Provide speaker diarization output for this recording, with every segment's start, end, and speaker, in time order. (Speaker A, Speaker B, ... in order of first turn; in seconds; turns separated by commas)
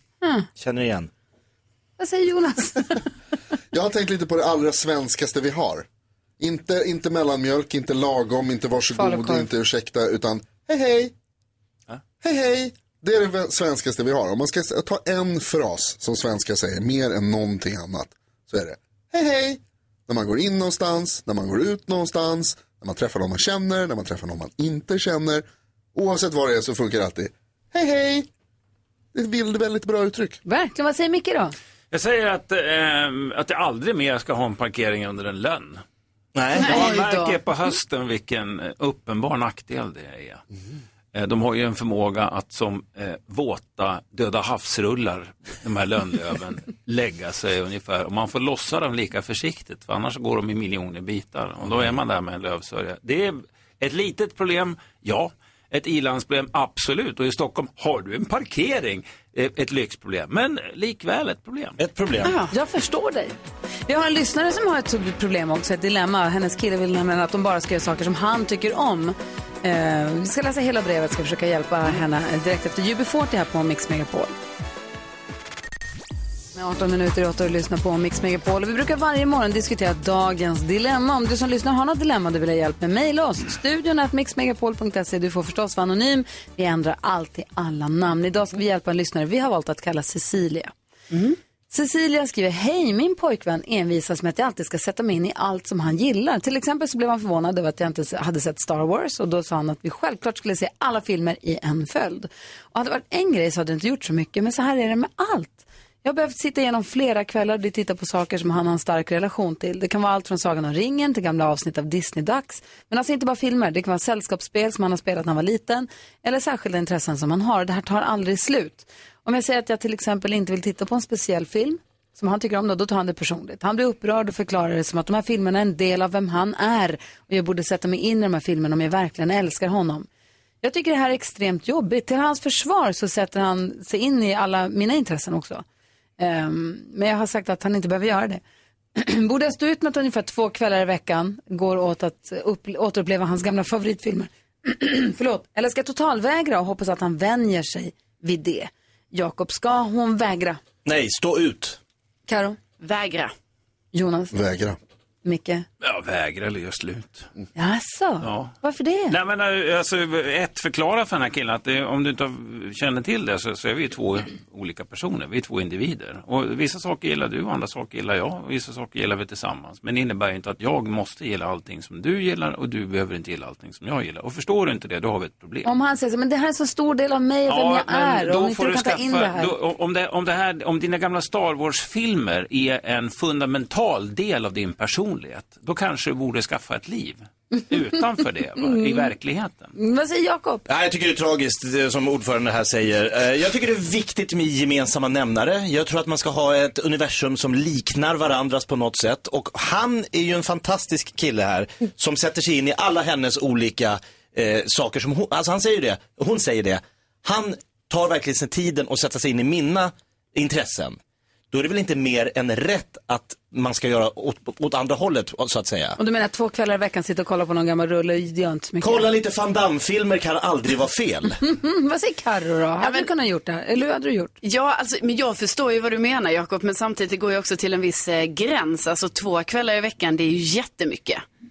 Speaker A: 0.6-1.1, Speaker B: 2.0-3.0, Speaker C: 3.7-5.9, Speaker C: 6.4-11.1, Speaker B: 8.9-9.5, Speaker C: 12.2-28.3, Speaker C: 29.1-30.4, Speaker B: 30.4-31.6, Speaker D: 31.9-35.8, Speaker A: 36.4-36.8, Speaker D: 36.6-40.4, Speaker B: 36.6-37.4, Speaker D: 41.1-61.8, Speaker A: 61.8-62.4, Speaker E: 62.2-62.5, Speaker B: 62.5-63.4, Speaker B: 63.9-74.3, Speaker B: 76.5-90.7, Speaker E: 91.1-91.4, Speaker B: 91.7-130.1, Speaker B: 130.6-135.6, Speaker B: 136.2-138.4, Speaker B: 139.0-150.6, Speaker A: 150.8-151.8, Speaker B: 152.3-152.6, Speaker E: 152.8-153.3, Speaker B: 153.9-154.4, Speaker C: 154.3-154.8, Speaker B: 155.2-155.7, Speaker D: 155.8-157.3, Speaker B: 157.6-159.2, Speaker D: 158.2-158.5, Speaker D: 159.1-175.7, Speaker B: 175.6-179.6, Speaker D: 177.5-189.7, Speaker B: 188.6-189.1, Speaker B: 189.8-190.7, Speaker A: 190.7-211.0, Speaker A: 211.5-216.0, Speaker B: 216.0-219.1, Speaker A: 218.8-221.4, Speaker B: 221.4-224.3, Speaker E: 222.8-223.1, Speaker E: 224.4-231.2